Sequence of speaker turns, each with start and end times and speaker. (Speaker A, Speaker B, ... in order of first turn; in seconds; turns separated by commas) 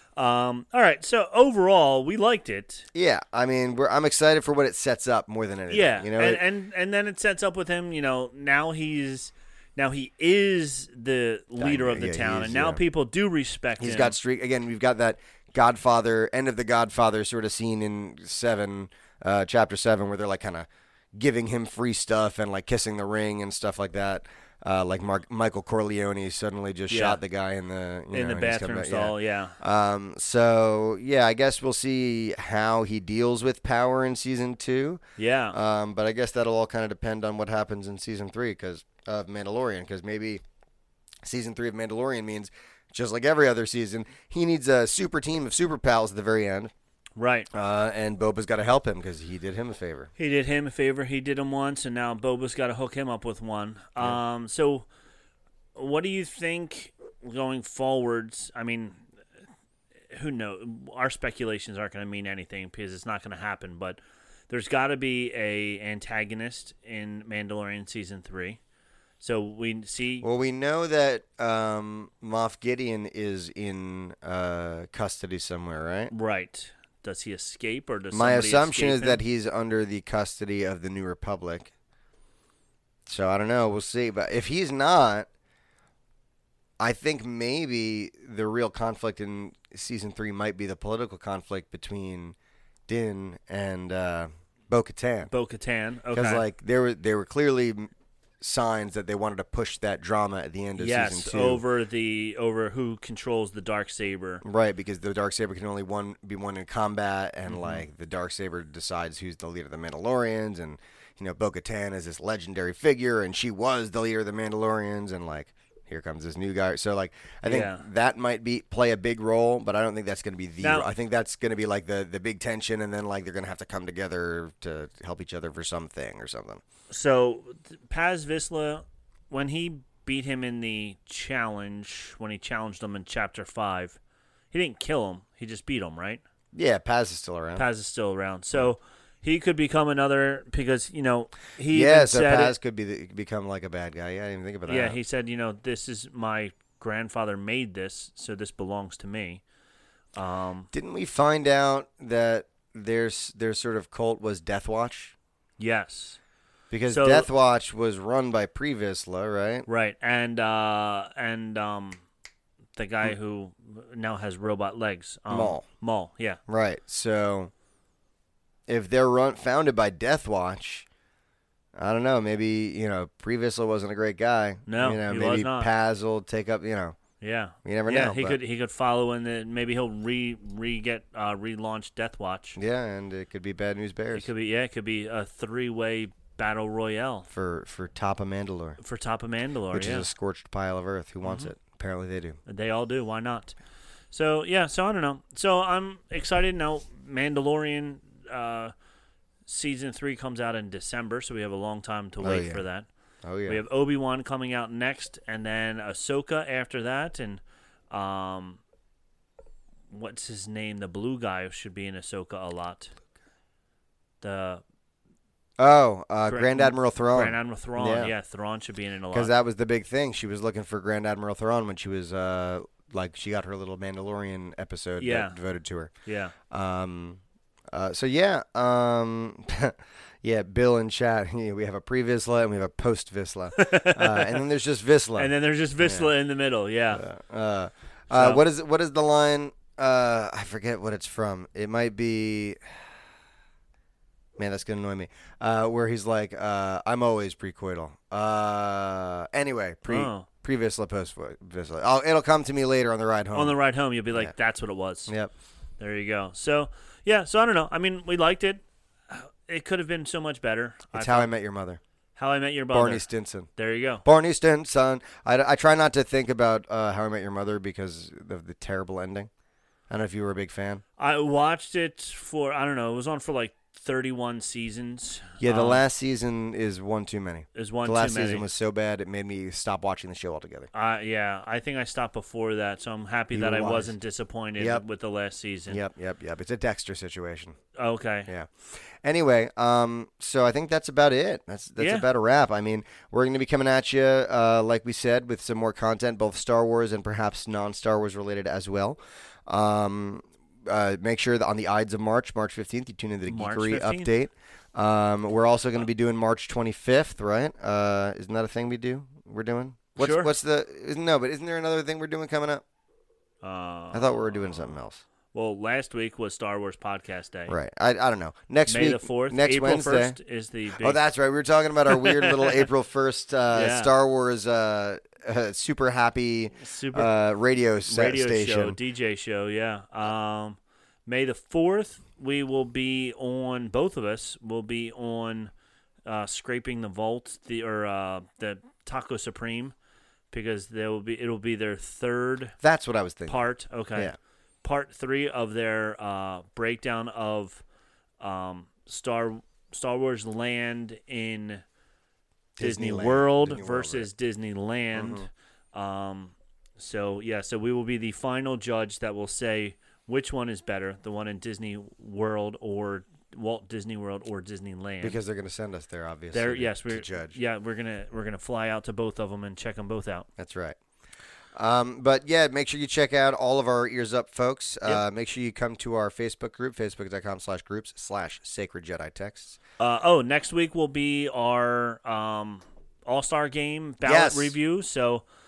Speaker A: 0.2-2.9, Speaker B: 2.9-6.4, Speaker A: 5.7-14.2, Speaker B: 11.6-12.8, Speaker B: 13.8-35.0, Speaker A: 26.9-27.2, Speaker A: 28.1-29.6, Speaker A: 35.2-35.5, Speaker B: 35.5-40.4, Speaker B: 41.2-46.7, Speaker A: 47.2-47.5, Speaker B: 47.5-50.1, Speaker A: 50.2-54.9, Speaker A: 55.7-59.0, Speaker A: 60.1-68.6, Speaker A: 69.2-70.3, Speaker B: 70.2-76.1, Speaker A: 76.1-79.2, Speaker B: 78.1-81.7, Speaker B: 83.0-85.3, Speaker B: 86.8-92.3, Speaker B: 92.9-95.3, Speaker A: 95.3-96.4, Speaker B: 96.1-101.6, Speaker A: 100.8-104.4, Speaker B: 104.4-126.6, Speaker A: 107.5-107.8, Speaker A: 117.5-117.8, Speaker A: 120.6-120.9, Speaker A: 126.9-134.0, Speaker A: 134.5-136.2, Speaker B: 136.5-137.6, Speaker A: 137.6-142.5, Speaker B: 141.6-145.0, Speaker A: 144.7-149.4, Speaker A: 150.1-150.7, Speaker B: 150.7-155.1, Speaker A: 155.6-156.2, Speaker B: 156.7-159.7, Speaker A: 156.9-157.3, Speaker A: 159.7-162.0, Speaker A: 162.7-166.4, Speaker B: 165.3-165.6, Speaker B: 166.5-167.5, Speaker B: 168.7-170.8, Speaker B: 171.7-177.0, Speaker A: 174.7-175.7, Speaker A: 177.2-182.6, Speaker B: 177.6-178.4, Speaker B: 182.6-184.3, Speaker A: 184.1-187.3, Speaker B: 187.3-188.8, Speaker A: 188.8-190.1, Speaker B: 189.7-192.4, Speaker A: 191.2-191.5, Speaker A: 192.5-193.5, Speaker A: 194.1-198.7, Speaker A: 199.4-202.9, Speaker B: 202.2-202.6, Speaker B: 203.2-203.6, Speaker A: 203.4-208.6, Speaker A: 209.9-212.9, Speaker A: 214.2-214.6, Speaker B: 215.6-218.1, Speaker A: 216.3-219.3, Speaker B: 219.1-225.9, Speaker A: 225.0-225.4, Speaker A: 226.1-226.3, Speaker B: 226.5-227.2, Speaker B: 227.7-236.1, Speaker A: 233.6-234.4, Speaker A: 235.2-237.0, Speaker B: 236.9-242.7, Speaker A: 238.1-238.4, Speaker B: 244.4-253.6, Speaker A: 249.9-250.2, Speaker A: 253.3-255.1, Speaker B: 255.1-255.3, Speaker A: 255.8-261.3, Speaker B: 260.9-261.8, Speaker A: 262.1-264.0, Speaker B: 262.7-263.5, Speaker B: 264.0-269.3, Speaker B: 269.9-270.8, Speaker A: 271.0-275.8, Speaker B: 275.4-280.7, Speaker A: 277.5-278.5, Speaker A: 280.7-285.8, Speaker B: 283.3-283.9, Speaker B: 284.6-284.8, Speaker B: 285.7-287.6, Speaker A: 287.8-288.3, Speaker B: 288.3-312.6, Speaker A: 291.8-292.1, Speaker A: 303.2-304.1, Speaker A: 310.0-310.3, Speaker A: 313.4-314.2, Speaker B: 313.9-315.0, Speaker A: 315.3-317.5, Speaker B: 317.5-320.2, Speaker A: 318.7-321.0, Speaker B: 320.8-328.8, Speaker A: 321.9-322.7, Speaker A: 323.5-323.9, Speaker A: 326.6-327.1, Speaker A: 327.9-335.5, Speaker A: 336.1-339.7, Speaker A: 340.3-342.6, Speaker B: 342.6-343.4, Speaker A: 343.3-347.6, Speaker A: 348.2-351.6, Speaker B: 352.6-354.1, Speaker A: 352.6-365.1, Speaker B: 354.9-355.3, Speaker B: 365.0-367.4, Speaker A: 366.3-370.3, Speaker B: 370.4-370.8, Speaker B: 371.5-379.6, Speaker A: 379.8-385.2, Speaker B: 384.0-384.6